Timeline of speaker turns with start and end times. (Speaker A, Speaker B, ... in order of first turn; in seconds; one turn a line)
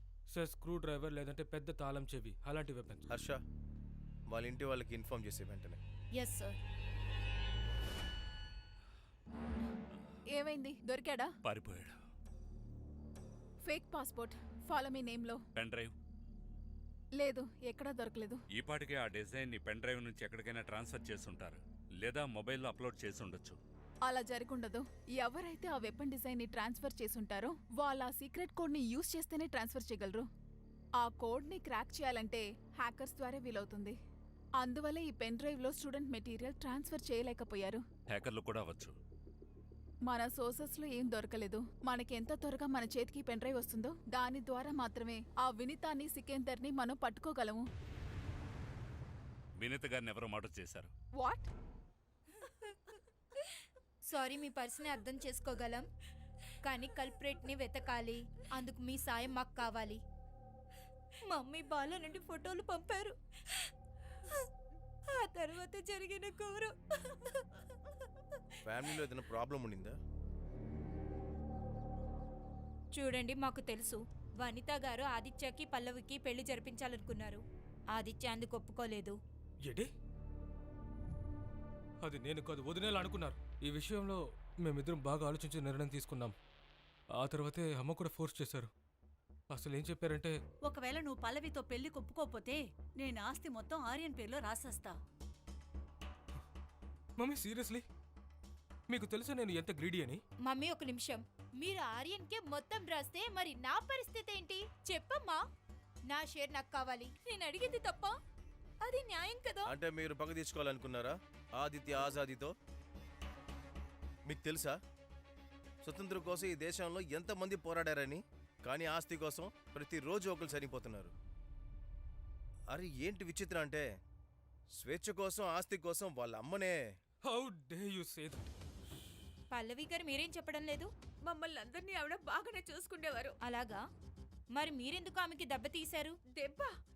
Speaker A: 0.3-3.0
Speaker B: 3.1-3.4
Speaker B: 4.3-5.8
Speaker C: 6.2-6.6
Speaker D: 10.3-11.3
Speaker E: 11.4-11.9
Speaker D: 13.7-15.4
Speaker E: 15.6-15.9
Speaker D: 17.2-18.4
Speaker E: 18.5-23.6
Speaker D: 24.1-30.3
Speaker D: 31.0-34.0
Speaker D: 34.6-37.8
Speaker E: 38.1-39.0
Speaker D: 40.1-47.7
Speaker E: 49.6-50.9
Speaker D: 51.2-51.5
Speaker C: 54.1-55.9
Speaker C: 56.6-60.0
Speaker C: 61.2-63.7
Speaker C: 65.1-67.7
Speaker B: 68.6-70.0
Speaker C: 72.9-77.4
Speaker C: 77.9-79.2
Speaker A: 82.0-86.3
Speaker A: 87.1-88.7
Speaker A: 89.5-90.3
Speaker F: 90.6-94.9
Speaker A: 97.2-97.8
Speaker A: 98.9-100.2
Speaker C: 100.4-105.4
Speaker C: 106.1-108.1
Speaker C: 108.8-109.7
Speaker B: 109.6-112.5
Speaker B: 114.3-114.8
Speaker B: 115.8-121.1
Speaker B: 122.7-123.8
Speaker B: 124.8-126.8
Speaker A: 127.2-128.4
Speaker C: 129.5-130.9
Speaker G: 131.3-133.3
Speaker C: 133.4-133.8
Speaker C: 134.5-136.2
Speaker G: 136.3-136.7